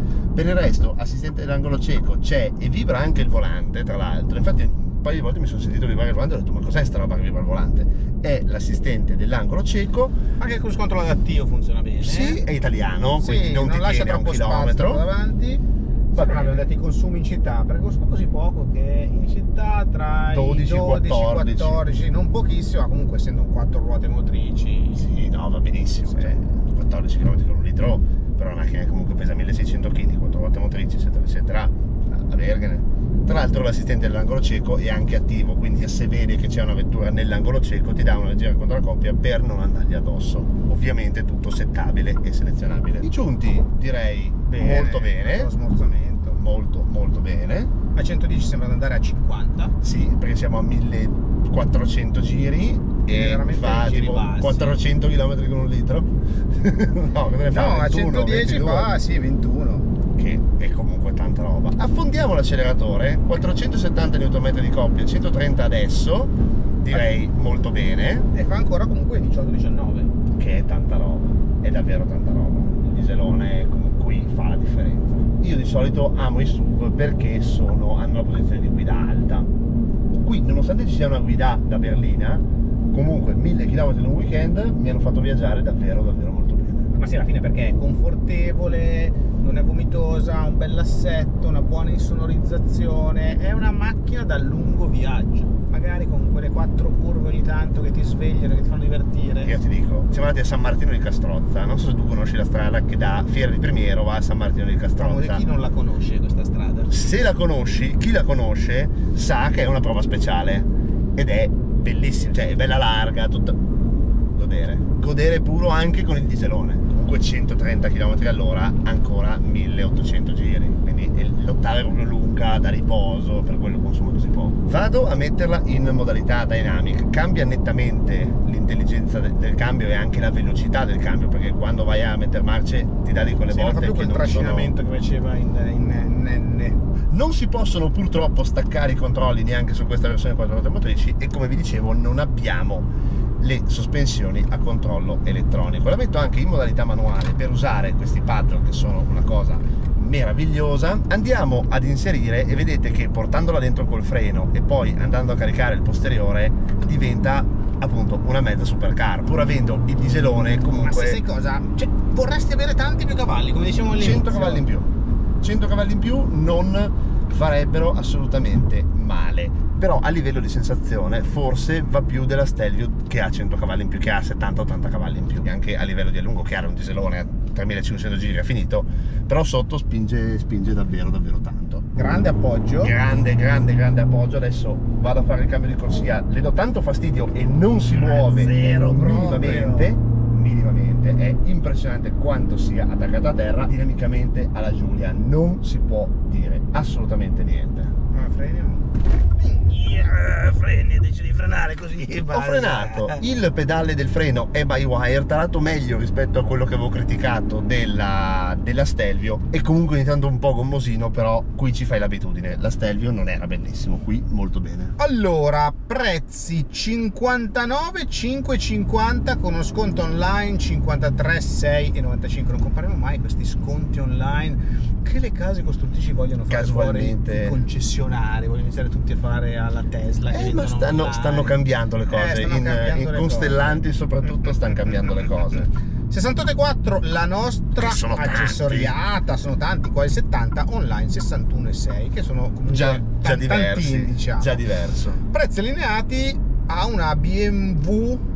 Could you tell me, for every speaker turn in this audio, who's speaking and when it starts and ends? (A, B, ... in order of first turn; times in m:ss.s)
0:00.3-0:10.1 A
0:10.4-0:12.4 B
0:12.0-0:15.0 A
0:13.2-0:25.1 B
0:16.1-0:16.7 A
0:20.3-0:21.8 A
0:24.9-0:45.5 A
0:26.1-0:26.4 B
0:44.4-0:46.4 B
0:46.4-0:47.7 A
0:47.9-0:49.7 B
0:49.8-0:58.9 A
0:53.1-0:54.8 B
0:57.5-0:59.9 B
1:00.1-1:08.3 A
1:08.3-1:10.1 B
1:10.3-1:19.5 A
1:20.2-1:26.9 A
1:26.9-1:39.6 B
1:39.4-1:45.4 A
1:45.0-1:46.9 B
1:46.9-1:53.6 A
1:54.3-2:14.7 A
2:13.5-2:16.8 B
2:17.1-2:22.9 A
2:23.4-2:41.2 A
2:40.7-2:44.6 B
2:44.0-2:44.9 A
2:45.4-3:01.9 A
3:01.9-3:02.9 B
3:02.8-3:17.9 A
3:07.9-3:09.9 B
3:18.1-3:23.2 B
3:22.2-3:34.9 A
3:35.0-3:51.6 B
3:46.5-3:47.6 A
3:50.3-3:55.7 A
3:52.1-3:55.5 B
3:56.1-4:04.6 B
3:57.8-3:59.0 A
4:02.7-4:05.2 A
4:05.3-4:08.2 B